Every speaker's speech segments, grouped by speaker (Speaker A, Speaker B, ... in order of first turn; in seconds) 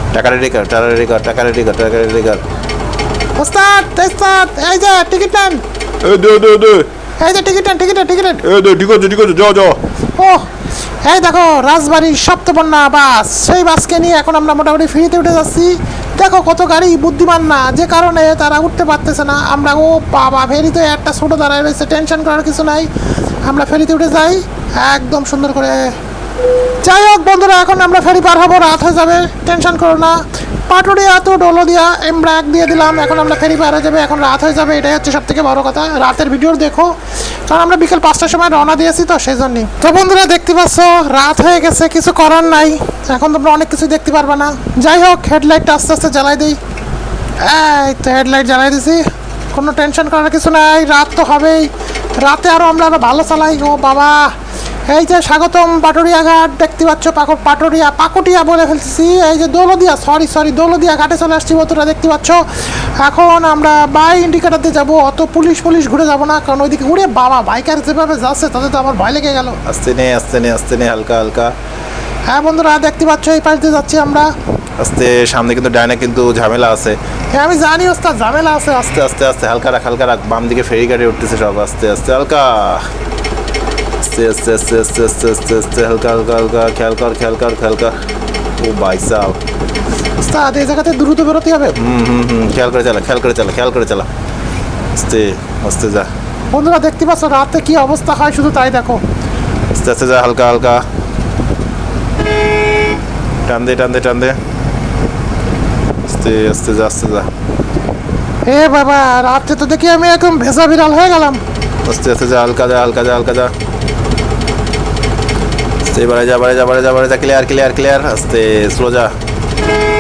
Speaker A: 0.1-2.4, 69.7-71.5, 74.8-77.0, 78.9-82.9, 84.0-88.0, 88.6-89.4, 91.8-94.1, 95.0-96.1, 99.7-100.8, 103.5-104.4, 106.1-107.3, 111.9-113.5, 115.8-119.1
Speaker B: 3.4-5.6, 7.2-8.4, 10.2-10.5, 11.1-22.9, 23.5-26.0, 26.8-46.6, 47.4-51.7, 52.2-54.3, 54.9-62.4, 63.0-69.6, 72.3-74.3, 77.3-79.0, 90.2-91.7, 96.5-99.0, 108.5-111.4
Speaker C: 6.0-6.9, 8.4-9.8